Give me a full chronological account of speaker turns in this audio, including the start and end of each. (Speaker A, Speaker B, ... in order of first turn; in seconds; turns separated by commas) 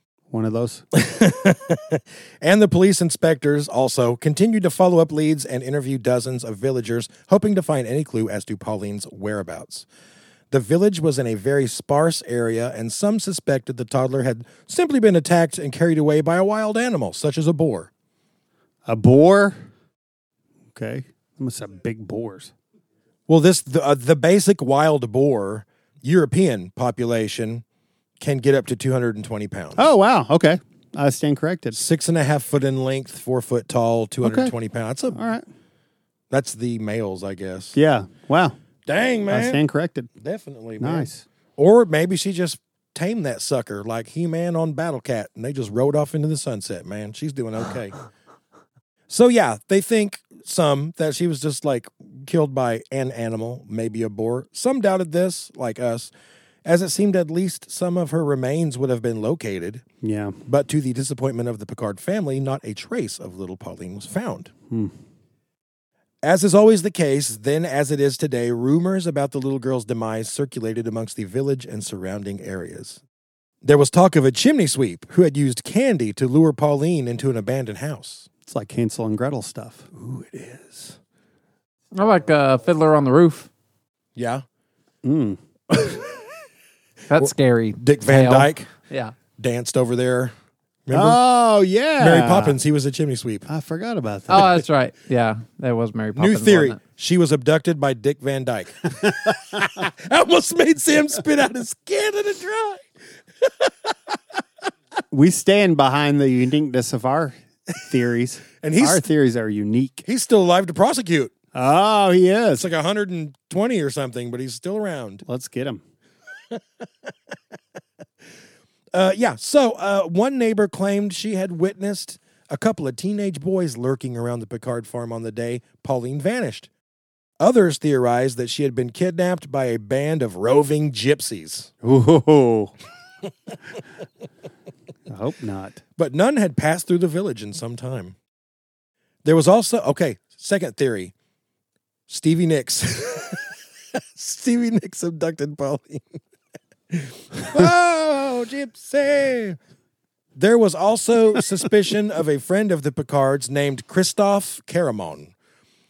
Speaker A: 0.3-0.8, Speaker B: 0.9-9.9, Speaker B: 10.5-17.9, Speaker A: 18.9-19.6, Speaker A: 20.7-22.5, Speaker B: 23.3-27.6, Speaker B: 28.2-29.8, Speaker A: 29.8-31.8, Speaker B: 31.7-35.2, Speaker A: 34.2-34.5, Speaker A: 35.1-35.4, Speaker B: 36.3-37.8, Speaker A: 37.7-38.6, Speaker B: 38.8-39.6, Speaker A: 39.3-40.1, Speaker B: 40.2-48.0, Speaker A: 40.8-41.2, Speaker B: 49.1-56.1, Speaker B: 56.6-59.8, Speaker A: 60.0-60.4, Speaker B: 60.5-64.5, Speaker B: 66.2-73.0, Speaker B: 73.6-78.3, Speaker A: 78.4-80.1, Speaker B: 80.0-80.9, Speaker C: 81.9-83.5, Speaker B: 84.1-84.4, Speaker A: 85.0-85.4, Speaker B: 85.7-86.0, Speaker C: 87.1-89.1, Speaker B: 87.2-88.7, Speaker B: 89.4-90.3, Speaker B: 90.8-91.2, Speaker A: 90.9-92.6, Speaker B: 92.0-93.5, Speaker A: 93.5-94.5, Speaker C: 94.3-96.8, Speaker B: 94.3-94.6, Speaker B: 96.1-102.8, Speaker A: 99.0-99.3, Speaker B: 103.4-103.9, Speaker A: 105.1-110.0, Speaker B: 108.6-109.0, Speaker B: 110.0-111.3, Speaker A: 111.5-112.7, Speaker B: 112.6-115.2, Speaker A: 115.2-115.8, Speaker B: 116.5-117.1, Speaker B: 118.9-126.7, Speaker B: 127.4-131.7, Speaker A: 131.8-132.7, Speaker A: 135.1-135.8, Speaker B: 136.0-138.1, Speaker B: 139.2-141.1, Speaker B: 142.1-146.2, Speaker B: 146.9-149.6, Speaker B: 150.3-155.3